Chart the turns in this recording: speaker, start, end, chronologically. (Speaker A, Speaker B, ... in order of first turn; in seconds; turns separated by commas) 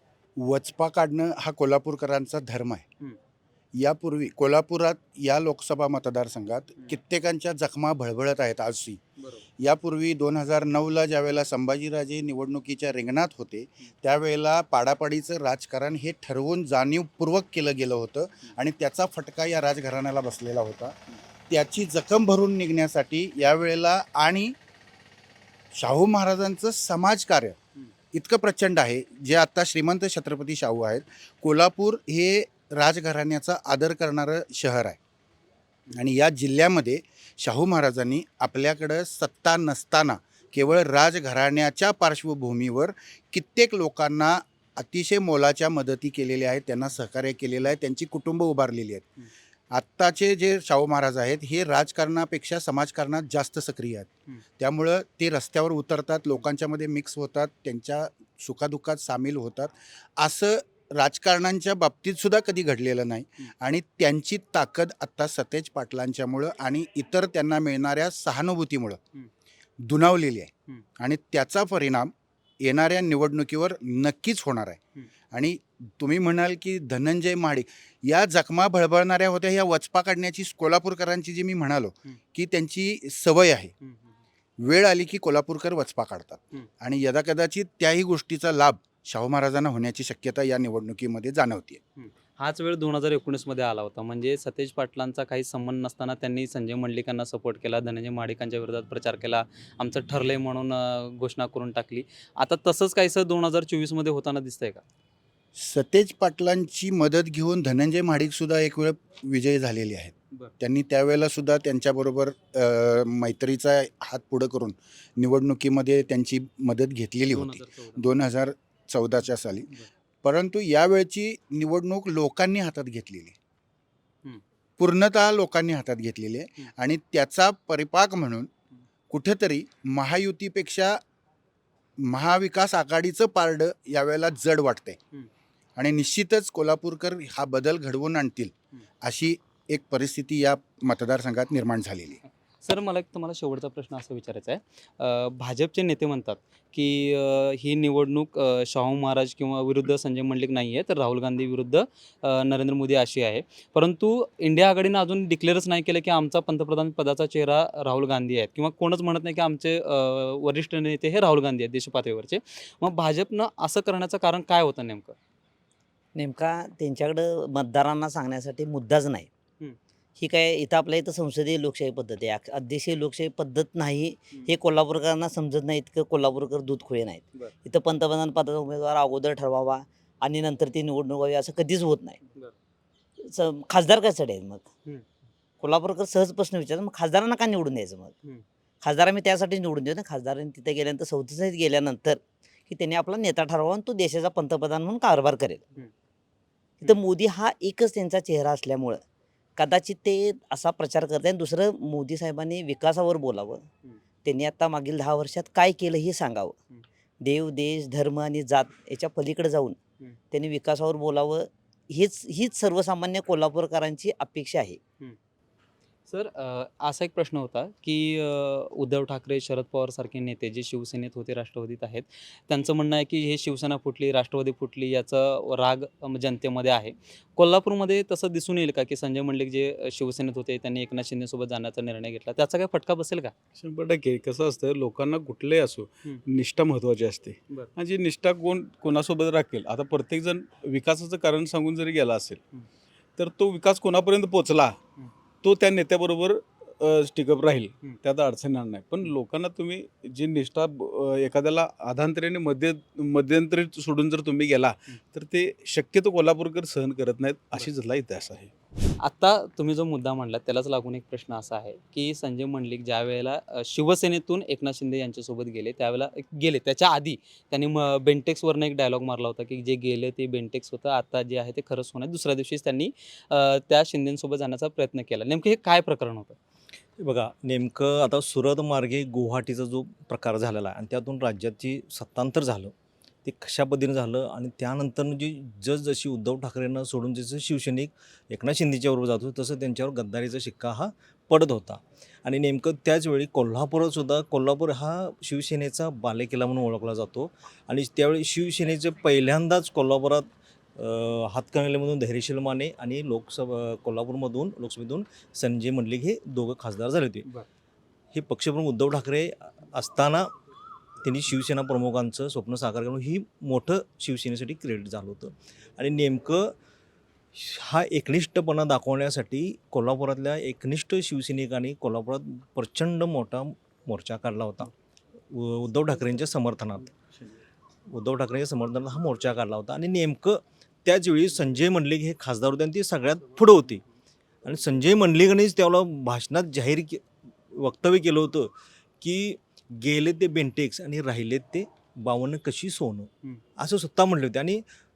Speaker A: 0.4-2.8, Speaker A: 3.8-9.0, Speaker B: 9.2-9.4, Speaker A: 9.6-21.0, Speaker A: 21.5-24.6, Speaker A: 25.8-27.6, Speaker A: 28.1-35.0, Speaker A: 35.9-49.0, Speaker A: 49.7-54.1, Speaker A: 54.6-69.0, Speaker A: 69.8-74.8, Speaker A: 75.3-83.7, Speaker A: 84.6-91.8, Speaker B: 92.0-104.8, Speaker A: 105.6-119.7, Speaker B: 117.3-118.1, Speaker A: 120.2-123.3, Speaker A: 124.8-128.5, Speaker A: 129.1-131.0, Speaker A: 132.1-135.0, Speaker A: 135.8-138.5, Speaker A: 139.0-142.2, Speaker B: 142.6-165.2, Speaker C: 166.2-169.3, Speaker C: 170.2-182.2, Speaker C: 183.2-184.7, Speaker C: 185.6-188.1, Speaker C: 188.8-195.6, Speaker C: 196.8-199.0, Speaker C: 199.6-203.7, Speaker C: 204.2-206.6, Speaker C: 207.2-209.8, Speaker C: 210.3-214.8, Speaker B: 216.1-233.3, Speaker D: 233.6-242.4, Speaker D: 243.2-244.8, Speaker D: 245.4-258.5, Speaker B: 259.0-276.4, Speaker E: 277.0-282.7, Speaker E: 283.2-300.2, Speaker E: 300.8-307.3, Speaker E: 308.1-310.3, Speaker E: 311.0-316.6, Speaker E: 317.4-324.7, Speaker E: 325.3-326.9, Speaker E: 327.9-333.8, Speaker E: 334.4-344.6